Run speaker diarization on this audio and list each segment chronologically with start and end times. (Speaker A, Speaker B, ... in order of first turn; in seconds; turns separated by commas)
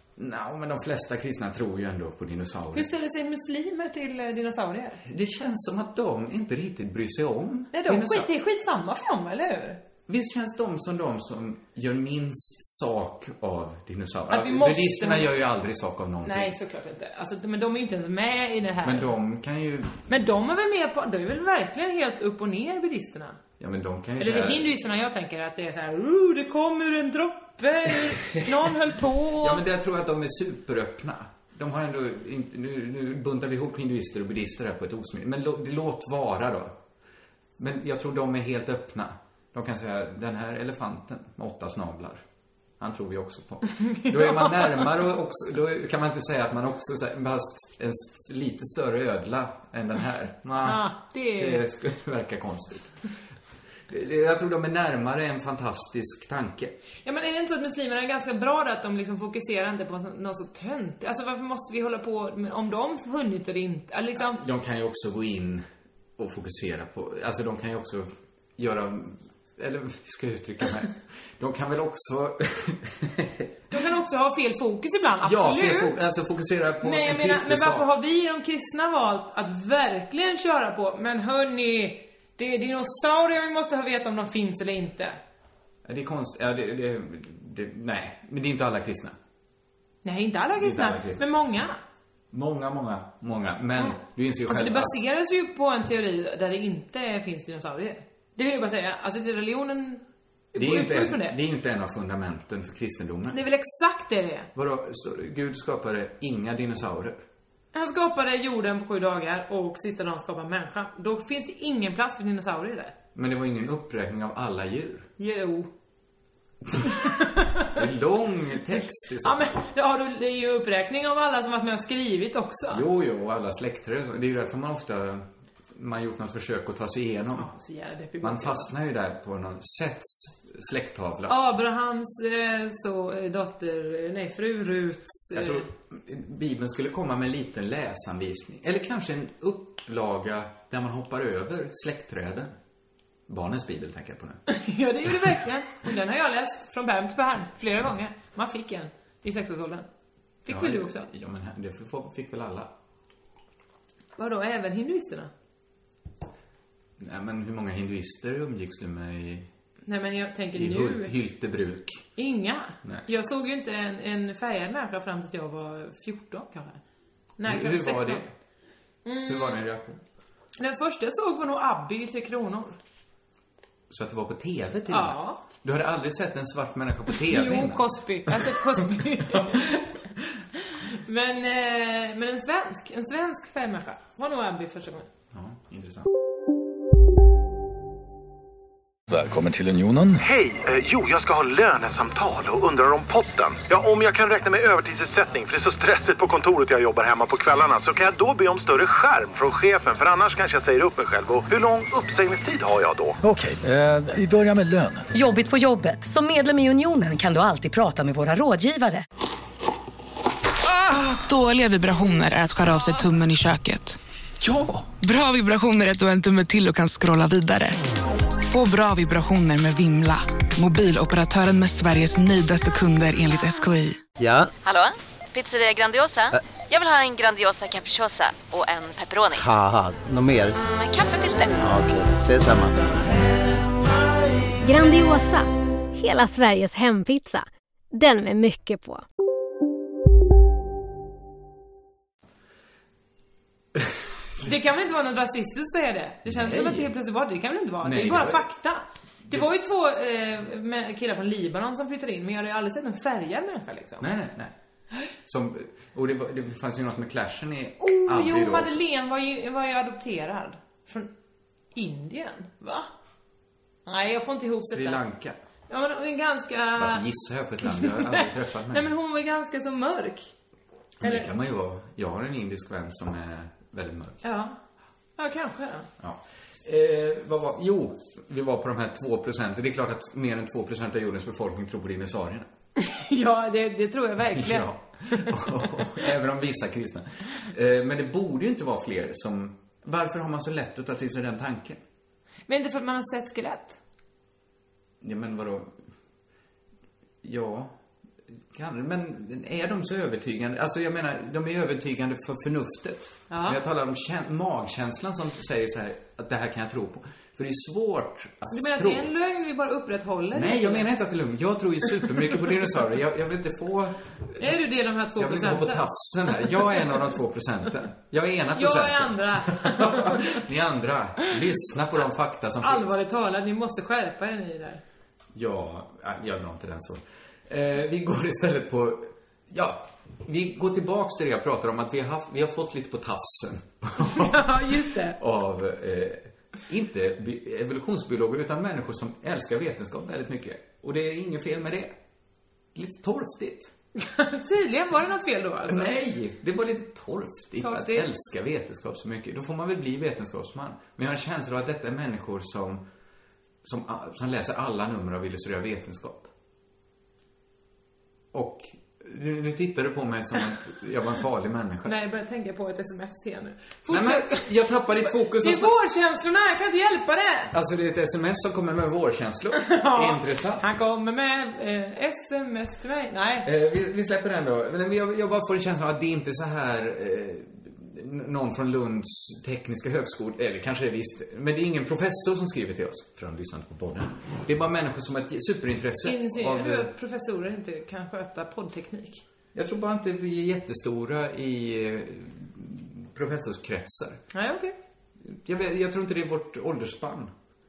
Speaker A: 0.1-2.9, Speaker B: 2.7-5.0, Speaker A: 5.0-8.3, Speaker B: 7.7-9.8, Speaker A: 10.1-16.5, Speaker B: 14.3-15.3, Speaker B: 16.2-19.1, Speaker A: 18.8-20.1, Speaker B: 20.1-23.4, Speaker A: 23.6-24.7, Speaker B: 24.2-29.6, Speaker A: 29.4-36.8, Speaker A: 37.6-42.2, Speaker A: 42.8-53.0, Speaker B: 43.7-44.9, Speaker B: 50.6-51.6, Speaker A: 53.9-56.7, Speaker B: 57.0-64.4, Speaker A: 64.2-65.7, Speaker A: 66.2-73.5, Speaker B: 73.7-76.0, Speaker A: 75.2-77.9, Speaker B: 76.8-85.2, Speaker A: 85.8-89.2, Speaker B: 90.0-91.8, Speaker A: 90.5-91.2, Speaker A: 92.3-95.0, Speaker B: 93.8-101.4, Speaker A: 100.5-103.4, Speaker B: 103.3-104.5, Speaker A: 104.5-107.2, Speaker B: 107.7-112.9, Speaker A: 113.1-115.1, Speaker B: 115.2-115.7, Speaker B: 116.9-117.7, Speaker A: 117.7-119.6, Speaker B: 119.2-122.8, Speaker A: 122.7-127.5, Speaker B: 127.3-128.7, Speaker A: 128.2-131.4, Speaker B: 131.3-135.7, Speaker A: 135.3-142.5, Speaker A: 143.3-144.4, Speaker B: 144.5-149.9, Speaker B: 150.4-151.1, Speaker A: 150.5-152.7, Speaker B: 154.2-155.3, Speaker A: 157.0-159.5, Speaker B: 159.8-161.1, Speaker A: 160.5-162.1, Speaker B: 162.2-166.8, Speaker B: 167.4-168.2, Speaker A: 167.4-168.3, Speaker B: 169.0-169.6, Speaker A: 169.3-170.0, Speaker B: 170.6-172.8, Speaker A: 173.9-179.8, Speaker B: 174.9-175.4, Speaker B: 177.1-179.8, Speaker B: 180.7-185.1, Speaker A: 185.3-186.1, Speaker C: 189.1-190.2, Speaker D: 190.2-203.2, Speaker C: 203.2-205.1, Speaker E: 205.1-209.0, Speaker F: 210.7-214.0, Speaker C: 214.4-214.8, Speaker F: 215.0-217.8, Speaker F: 218.4-224.0, Speaker G: 224.2-224.5, Speaker H: 224.6-229.4, Speaker G: 229.3-230.5, Speaker H: 230.6-231.7, Speaker G: 231.6-232.8, Speaker I: 234.6-239.0, Speaker B: 244.4-254.1, Speaker A: 246.2-246.9, Speaker A: 247.8-248.4, Speaker A: 254.0-254.5, Speaker A: 255.2-258.7, Speaker B: 257.8-261.1, Speaker B: 261.7-262.9, Speaker B: 263.9-265.0, Speaker A: 264.6-265.4, Speaker B: 265.7-267.1, Speaker A: 266.8-268.9, Speaker B: 267.6-270.3, Speaker A: 271.0-274.2, Speaker B: 271.0-271.3, Speaker B: 274.2-274.6, Speaker B: 275.2-275.9, Speaker A: 276.0-282.5, Speaker B: 282.8-285.8, Speaker A: 284.3-291.8, Speaker B: 292.5-293.8, Speaker A: 295.0-295.7, Speaker A: 297.2-297.7, Speaker A: 298.5-309.1, Speaker B: 303.3-303.6, Speaker B: 308.5-310.9, Speaker A: 310.3-314.4, Speaker B: 314.4-315.9, Speaker A: 315.2-322.9, Speaker B: 318.5-320.4, Speaker B: 322.6-324.8, Speaker A: 325.3-342.0, Speaker B: 334.0-335.2, Speaker A: 342.7-343.7, Speaker B: 344.0-345.9, Speaker A: 345.6-352.9, Speaker B: 347.6-348.1, Speaker A: 353.6-356.3, Speaker A: 358.3-361.9, Speaker B: 361.8-364.5, Speaker A: 363.9-365.7, Speaker B: 365.1-367.5, Speaker A: 367.5-370.7, Speaker B: 369.5-373.5, Speaker A: 373.4-386.9, Speaker B: 386.0-389.2, Speaker A: 389.5-394.2, Speaker B: 394.3-394.7, Speaker A: 395.2-397.3